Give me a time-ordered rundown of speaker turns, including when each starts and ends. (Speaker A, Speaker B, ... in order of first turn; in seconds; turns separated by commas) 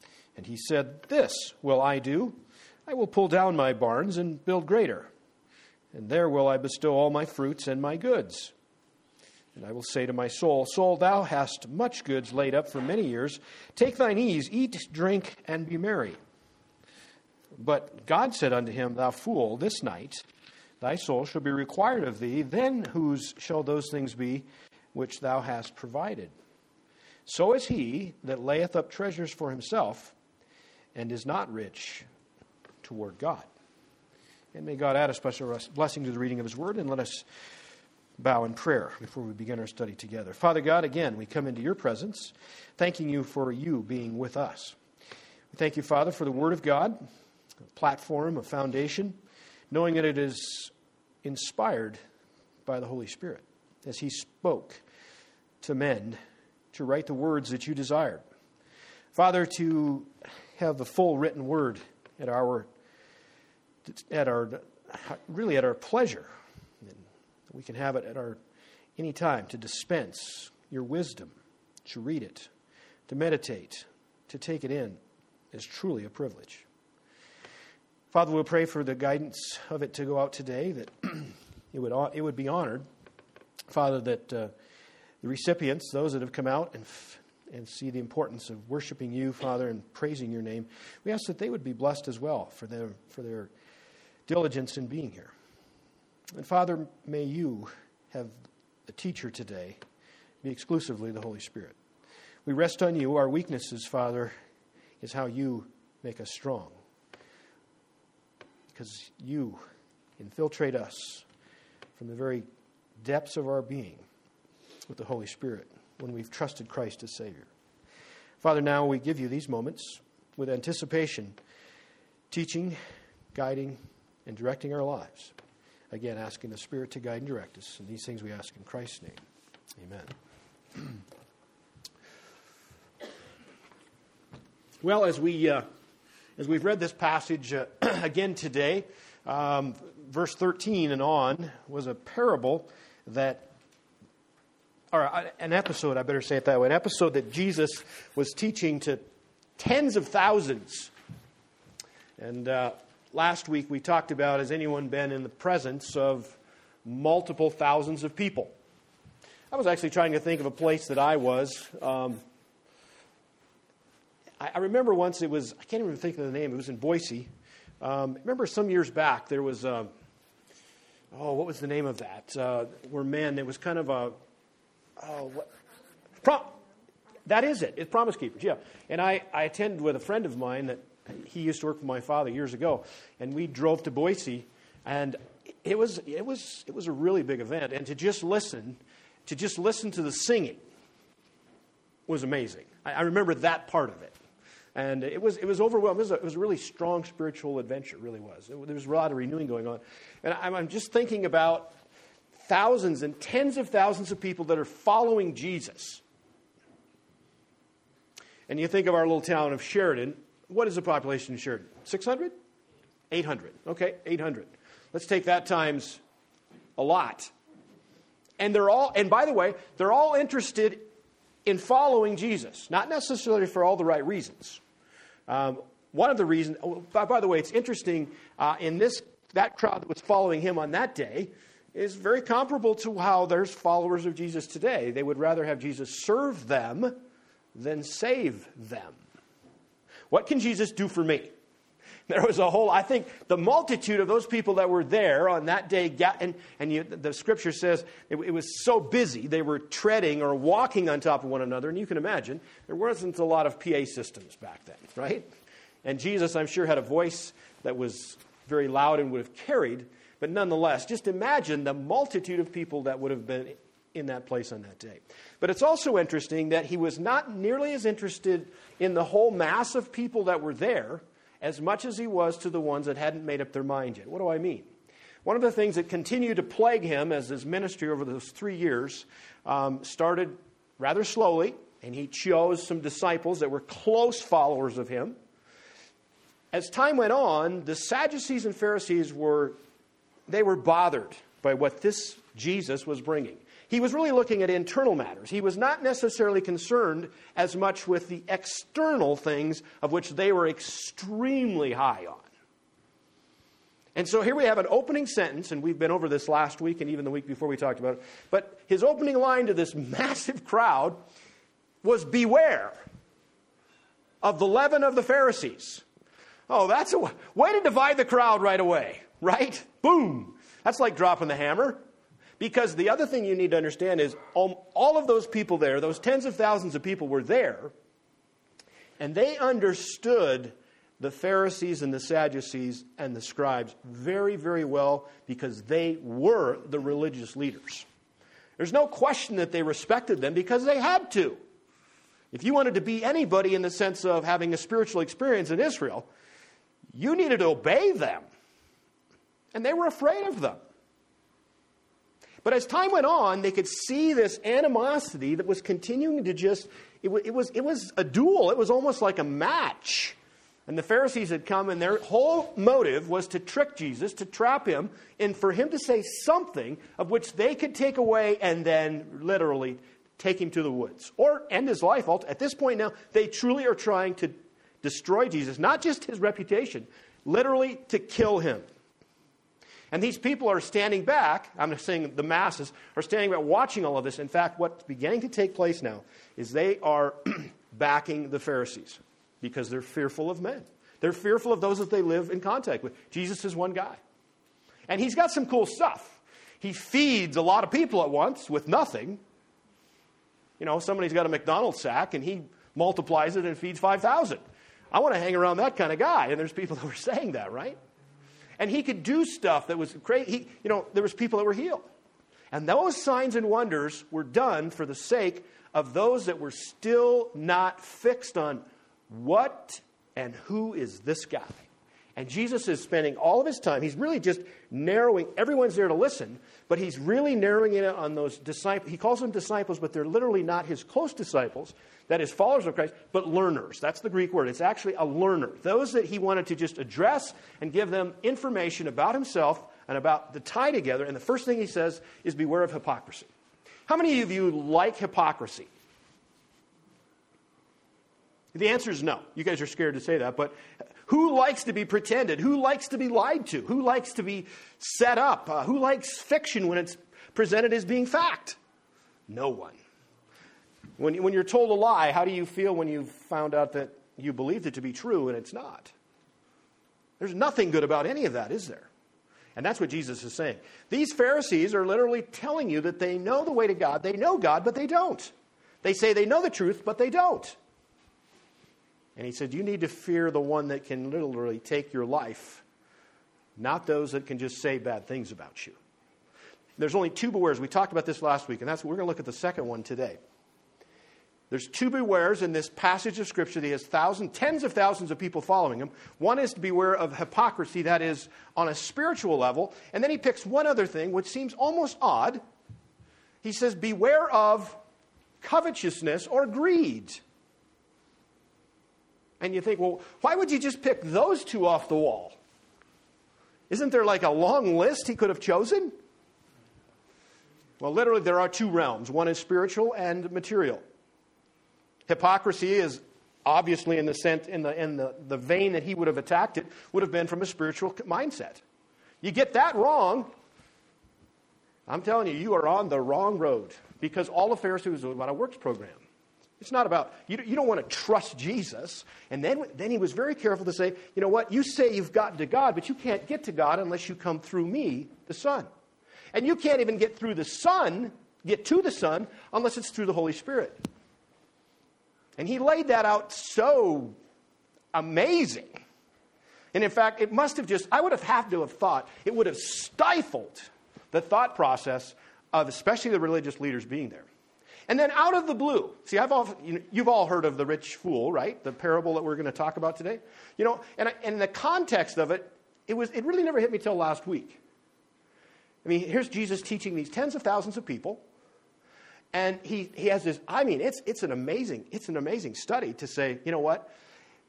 Speaker A: 0.4-5.1, Speaker A: 5.9-8.5, Speaker A: 9.6-16.2, Speaker A: 17.6-20.2, Speaker A: 20.8-26.3, Speaker A: 27.3-30.1, Speaker A: 30.9-32.1, Speaker A: 32.8-33.5, Speaker A: 34.5-37.3, Speaker A: 38.2-44.8, Speaker A: 45.5-47.0, Speaker A: 47.8-49.2, Speaker A: 49.7-50.7, Speaker A: 51.2-52.0, Speaker A: 52.7-54.8, Speaker A: 55.6-56.2, Speaker A: 56.7-58.2, Speaker A: 59.1-62.7, Speaker A: 63.9-66.3, Speaker A: 66.8-68.4, Speaker A: 69.0-72.5, Speaker A: 73.1-75.0, Speaker A: 75.5-76.7, Speaker A: 78.1-82.9, Speaker A: 83.7-84.5, Speaker A: 85.2-93.5, Speaker A: 94.3-95.3, Speaker A: 96.3-99.8, Speaker A: 100.4-101.8, Speaker A: 102.5-104.3, Speaker A: 105.0-106.8, Speaker A: 108.7-109.6, Speaker A: 110.2-111.2, Speaker A: 112.0-112.5, Speaker A: 113.0-114.0, Speaker A: 114.9-117.5, Speaker A: 118.4-121.4, Speaker A: 122.3-122.8, Speaker A: 123.3-125.3, Speaker A: 125.9-129.2, Speaker A: 129.8-130.1, Speaker A: 134.8-135.7, Speaker A: 136.4-143.5, Speaker A: 144.9-149.0, Speaker A: 149.6-150.9, Speaker A: 152.2-158.5, Speaker A: 159.5-162.2, Speaker A: 164.4-167.3, Speaker A: 167.8-169.9, Speaker A: 171.1-174.2, Speaker A: 175.0-175.5, Speaker A: 176.2-176.5, Speaker A: 177.3-190.6, Speaker A: 192.1-194.2, Speaker A: 194.8-201.7, Speaker A: 202.4-206.0, Speaker A: 208.5-212.3, Speaker A: 213.1-216.0, Speaker A: 216.8-217.3, Speaker A: 218.4-220.9, Speaker A: 221.4-224.6, Speaker A: 225.3-237.0, Speaker A: 237.5-239.0, Speaker A: 240.1-241.3, Speaker A: 242.1-255.3, Speaker A: 255.8-274.7, Speaker A: 275.2-285.2, Speaker A: 286.5-289.6, Speaker A: 290.3-302.3, Speaker A: 303.9-311.0, Speaker A: 311.8-312.8, Speaker A: 314.2-315.8, Speaker A: 316.5-321.8, Speaker A: 322.4-327.7, Speaker A: 329.0-337.9, Speaker A: 338.6-341.4, Speaker A: 342.3-346.1, Speaker A: 346.9-348.3, Speaker A: 349.5-350.6, Speaker A: 352.4-360.2, Speaker A: 360.7-378.7, Speaker A: 379.9-394.0, Speaker A: 394.9-399.2, Speaker A: 400.6-407.8, Speaker A: 408.6-411.9, Speaker A: 412.5-443.3, Speaker A: 443.9-445.7, Speaker A: 448.5-458.6, Speaker A: 459.3-459.8, Speaker A: 461.0-465.9, Speaker A: 467.2-468.9, Speaker A: 469.6-477.6, Speaker A: 479.2-482.6, Speaker A: 483.6-485.8, Speaker A: 486.8-490.2, Speaker A: 491.5-502.4, Speaker A: 503.4-504.8, Speaker A: 505.4-507.2, Speaker A: 509.4-512.4, Speaker A: 513.7-516.0, Speaker A: 517.8-520.8, Speaker A: 522.1-528.6, Speaker A: 529.2-530.3, Speaker A: 531.9-536.0, Speaker A: 536.6-545.7, Speaker A: 546.3-550.8, Speaker A: 552.4-554.2, Speaker A: 554.9-555.8, Speaker A: 556.7-564.3, Speaker A: 564.9-574.6, Speaker A: 575.8-578.2, Speaker A: 579.3-583.9